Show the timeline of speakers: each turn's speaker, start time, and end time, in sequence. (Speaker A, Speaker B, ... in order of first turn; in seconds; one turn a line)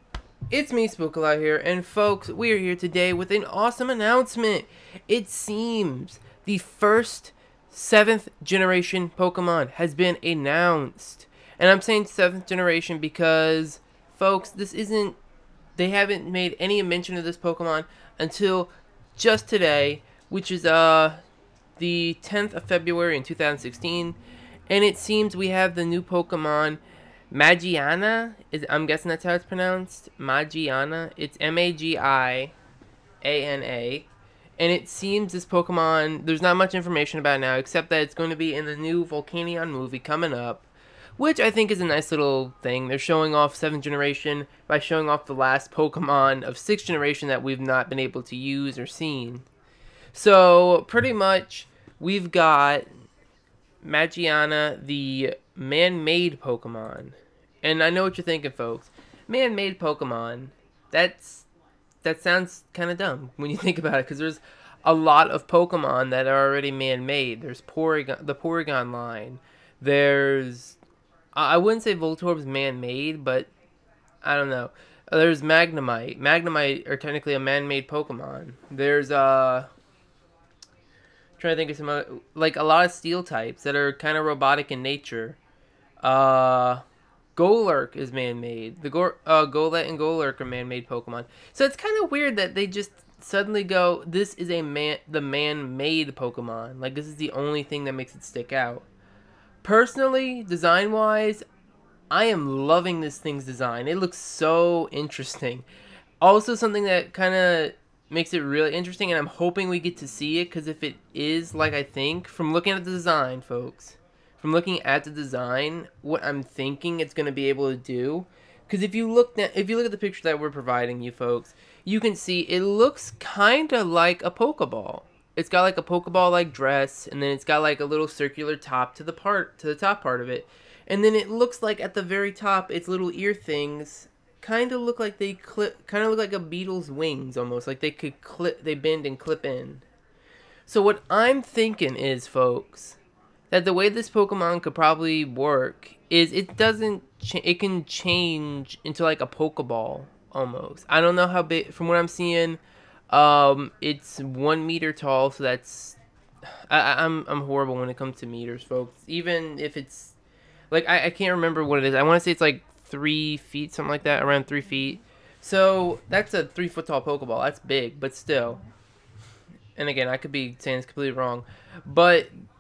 Speaker A: 0.5-15.2
Speaker A: 15.8-21.2
Speaker A: 21.8-24.2
Speaker A: 24.7-26.8
Speaker A: 27.3-32.5
Speaker A: 33.2-34.1
Speaker A: 34.6-40.7
Speaker A: 41.2-49.5
Speaker A: 50.1-52.9
Speaker A: 53.8-61.5
Speaker A: 62.0-70.8
Speaker A: 71.3-73.5
Speaker A: 74.2-79.7
Speaker A: 81.4-85.4
Speaker A: 86.0-86.8
Speaker A: 87.4-98.9
Speaker A: 99.6-101.4
Speaker A: 102.1-105.7
Speaker A: 106.2-139.8
Speaker A: 140.7-143.0
Speaker A: 143.5-156.0
Speaker A: 156.7-160.2
Speaker A: 160.7-168.6
Speaker A: 169.8-172.3